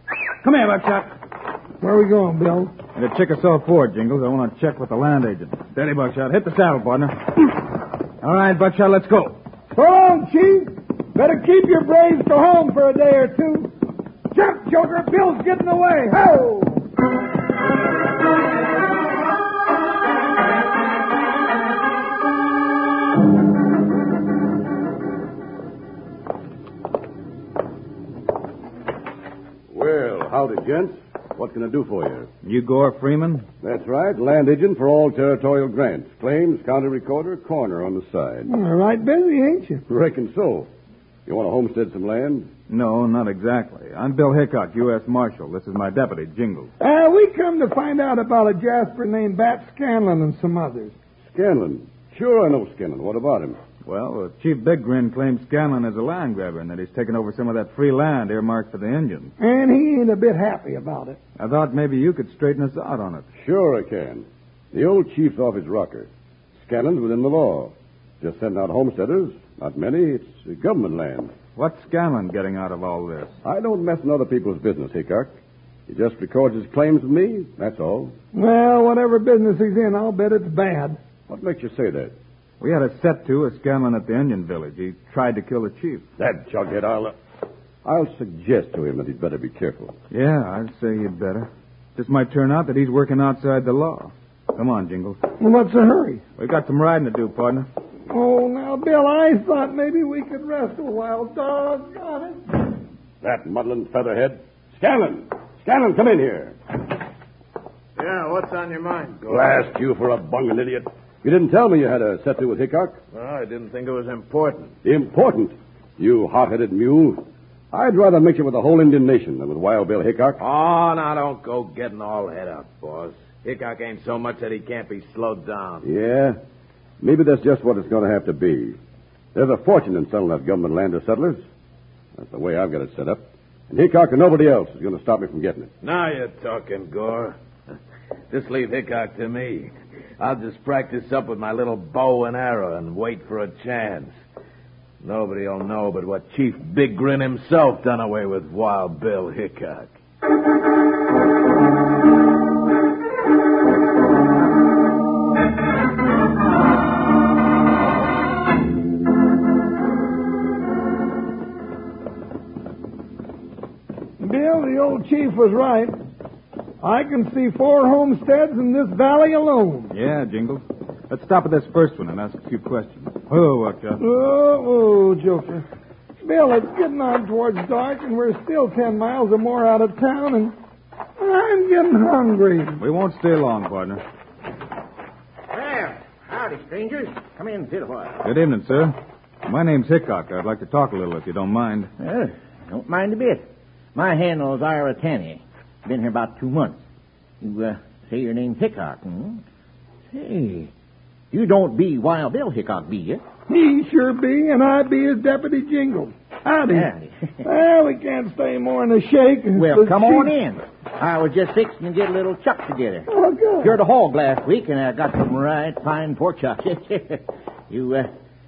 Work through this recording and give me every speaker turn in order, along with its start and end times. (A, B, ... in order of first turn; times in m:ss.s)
0:00.4-0:01.1 A
0:01.8-0:02.7 B
0:02.9-0:07.6 A
0:08.2-0:09.4 A
0:09.7-0:13.7 B
0:14.3-0:16.8 B
0:29.7-0:32.3 C
0:32.4-0:33.5 A
0:33.6-0:38.5 C
0:38.5-0:39.8 B
0:39.9-0:40.7 C
0:41.2-0:42.5 C
0:42.7-0:46.7 A
0:46.8-0:50.9 B
0:51.2-0:53.6 C
0:53.8-0:59.3 A
0:59.4-1:01.2 B
1:01.4-1:03.2 A
1:03.4-1:11.3 C
1:11.6-1:13.3 A
1:13.4-1:15.3 C
1:15.9-1:18.1 C
1:18.3-1:21.0 B
1:21.3-1:22.1 C
1:22.6-1:26.0 A
1:26.2-1:27.2 C
1:27.8-1:29.9 C
1:30.1-1:35.2 A
1:35.4-1:36.2 B
1:36.4-1:37.7 A
1:38.1-1:42.4 B
1:43.2-1:46.5 C
1:48.0-1:49.6 D
1:49.3-1:53.0 C
1:53.1-1:54.7 D
1:54.8-2:00.4 C
2:00.4-2:05.8 D
2:05.8-2:06.4 C
2:07.0-2:08.8 C
2:09.3-2:11.4 C
2:12.2-2:15.7 C
2:15.8-2:17.3 D
2:18.3-2:24.1 D
2:25.0-2:29.9 D
2:44.2-2:46.0 B
2:46.8-2:49.9 B
2:49.9-2:54.0 A
2:54.0-2:55.6 B
2:56.2-3:00.5 B
3:01.2-3:02.8 B
3:02.8-3:04.0 A
3:05.5-3:08.2 E
3:08.2-3:11.9 A
3:12.0-3:13.4 E
3:13.9-3:16.8 E
3:17.4-3:19.4 E
3:20.1-3:20.7 E
3:21.3-3:23.2 E
3:23.5-3:26.9 B
3:26.7-3:27.4 E
3:27.4-3:30.3 B
3:29.6-3:33.1 E
3:33.1-3:33.7 B
3:33.6-3:38.1 E